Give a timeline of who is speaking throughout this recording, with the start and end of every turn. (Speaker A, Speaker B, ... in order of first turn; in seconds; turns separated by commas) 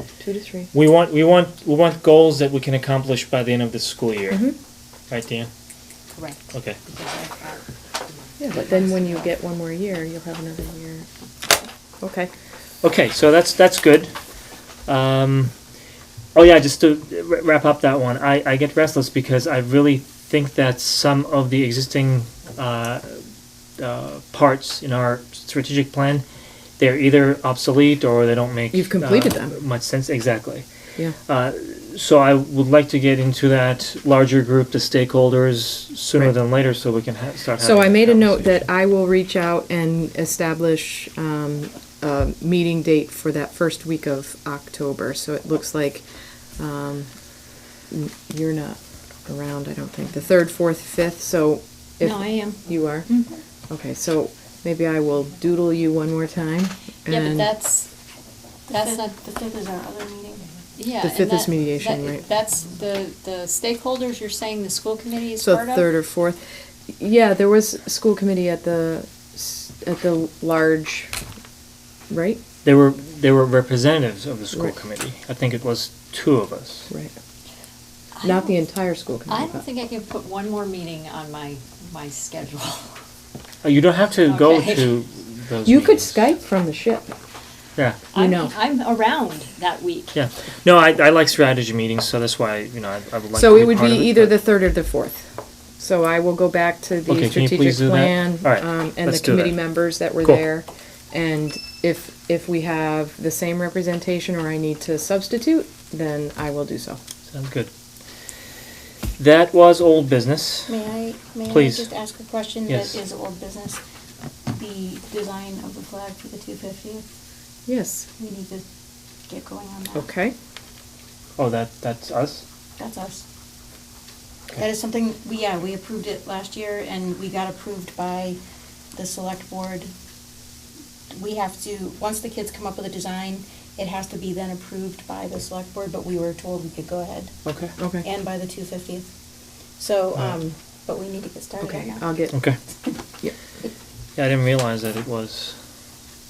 Speaker A: 0.2-0.7, Speaker B: 0.7-4.5, Speaker A: 4.3-4.5, Speaker B: 5.1-5.5, Speaker C: 6.1-9.3, Speaker B: 6.5-6.8, Speaker A: 8.4-11.1, Speaker A: 12.0-12.3, Speaker B: 12.8-14.1, Speaker B: 14.9-15.5, Speaker B: 16.3-23.2, Speaker B: 23.8-26.2, Speaker B: 26.8-30.6, Speaker A: 28.7-29.6, Speaker B: 31.3-38.7, Speaker A: 37.6-46.0, Speaker A: 46.6-47.1, Speaker A: 47.9-53.1, Speaker D: 52.0-52.6, Speaker A: 53.7-57.5, Speaker C: 57.1-57.9, Speaker D: 58.7-60.4, Speaker C: 58.7-59.1, Speaker C: 60.8-65.8, Speaker A: 61.0-62.2, Speaker A: 65.4-71.1, Speaker A: 72.1-72.4, Speaker B: 72.6-76.9, Speaker C: 78.2-78.5, Speaker A: 78.2-79.7, Speaker C: 79.3-82.9, Speaker B: 83.6-86.3, Speaker C: 84.2-85.0, Speaker A: 85.6-87.1, Speaker C: 88.1-90.2, Speaker A: 88.1-88.5, Speaker B: 90.1-94.4, Speaker A: 93.3-107.0, Speaker B: 97.1-99.6, Speaker B: 107.3-107.7, Speaker B: 109.2-110.8, Speaker D: 110.7-113.8, Speaker B: 111.5-111.9, Speaker B: 112.7-113.0, Speaker D: 114.5-117.0, Speaker A: 117.7-118.1, Speaker D: 118.2-118.6, Speaker D: 119.3-120.0, Speaker A: 119.9-120.3, Speaker B: 121.4-122.4, Speaker D: 122.8-123.2, Speaker D: 124.5-128.4, Speaker D: 128.9-129.9, Speaker D: 131.1-137.3, Speaker B: 137.4-137.8, Speaker A: 137.8-138.1, Speaker D: 138.0-139.1, Speaker D: 139.8-142.1, Speaker A: 141.6-142.4, Speaker B: 144.2-145.6